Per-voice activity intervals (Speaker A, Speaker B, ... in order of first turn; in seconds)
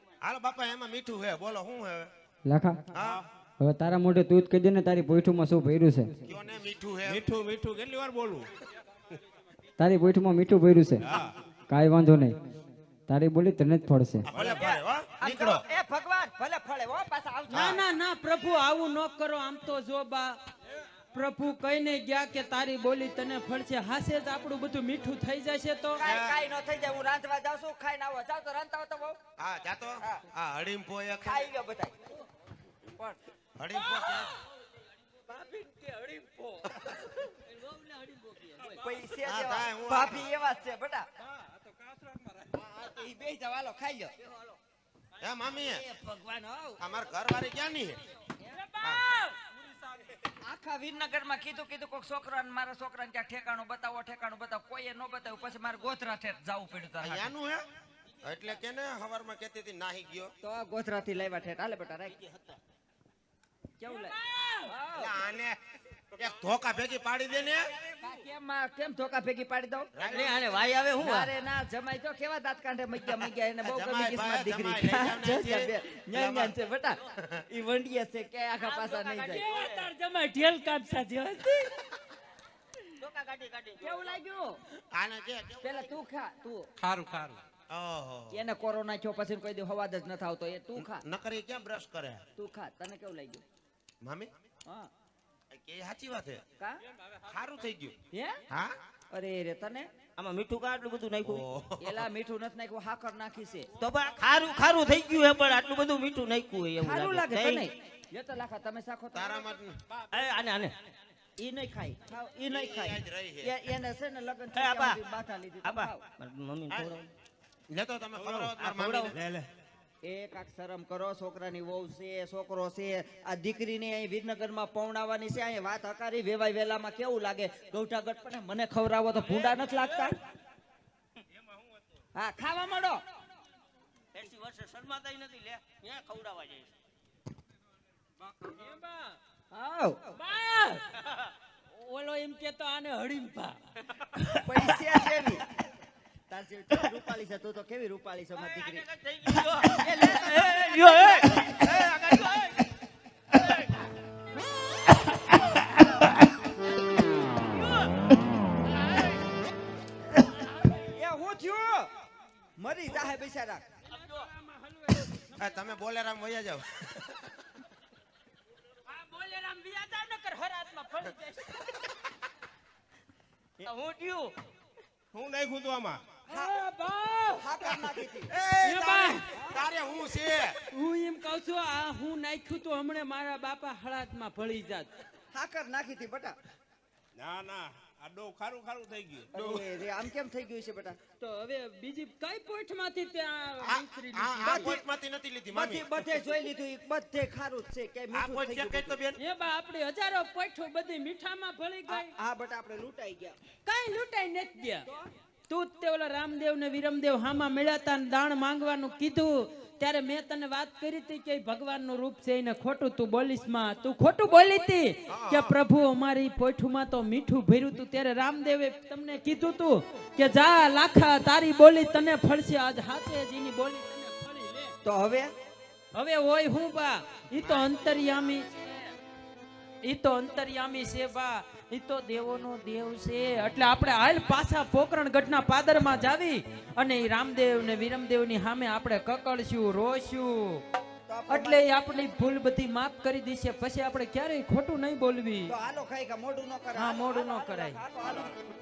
Speaker A: 0.2-2.1, 2.9-3.2, 6.2-7.3, 14.3-15.6, 26.0-26.3, 29.4-31.4, 33.6-34.4, 39.2-40.2, 45.2-45.8, 46.8-48.0, 57.0-57.6, 58.2-60.3, 65.0-65.6, 66.2-67.7, 70.0-70.4, 73.6-76.5, 84.9-85.8, 87.7-88.4, 90.8-92.2, 94.0-94.3, 95.5-96.4, 97.3-97.9, 101.2-101.9, 109.1-109.8, 112.5-113.5, 116.7-116.9, 117.7-119.2, 151.1-152.2, 165.4-167.3, 178.3-180.6, 193.6-196.0, 198.1-199.2, 215.1-215.5
Speaker B: 2.5-2.8, 3.6-6.1, 9.8-11.0, 11.7-12.4, 13.1-14.3
Speaker C: 7.0-8.5, 11.0-11.3, 86.8-87.4, 118.2-119.5, 175.1-176.0, 187.2-189.5
Speaker D: 14.4-17.8, 25.9-29.2, 31.2-32.0, 38.7-41.1, 42.5-44.5, 45.6-46.8, 50.4-57.3, 60.4-62.5, 63.8-64.1, 64.7-65.2, 68.0-79.5, 83.8-84.6, 85.6-86.7, 88.3-91.0, 92.4-93.4, 99.1-99.9, 101.8-103.7, 106.8-109.5, 111.4-116.1, 120.0-130.2, 132.2-133.0, 139.5-140.1, 144.3-145.5, 146.3-148.9, 149.8-150.7, 160.9-161.9, 162.6-163.6, 177.4-178.3, 185.3-186.4, 189.3-191.0, 194.4-194.8, 195.5-199.0, 201.9-203.3, 224.8-225.3, 241.1-241.6, 245.5-248.3
Speaker E: 17.5-20.4, 21.1-26.0, 35.3-38.7, 48.5-49.4, 63.9-64.7, 79.2-81.7, 138.5-139.2, 140.2-140.8, 141.7-143.6, 163.9-165.4, 168.8-171.7, 176.3-177.5, 178.6-179.2, 180.7-184.9, 191.2-194.7, 199.2-202.1, 203.6-204.9, 205.5-224.7, 225.9-228.6, 229.8-240.6, 241.3-245.5, 246.7-247.8
Speaker F: 70.0-71.3, 78.6-79.8, 83.0-84.2, 100.2-101.4, 103.8-107.6, 110.1-110.7, 114.5-115.0, 115.6-117.1, 118.5-119.1, 134.1-136.7, 148.6-152.2, 173.6-174.4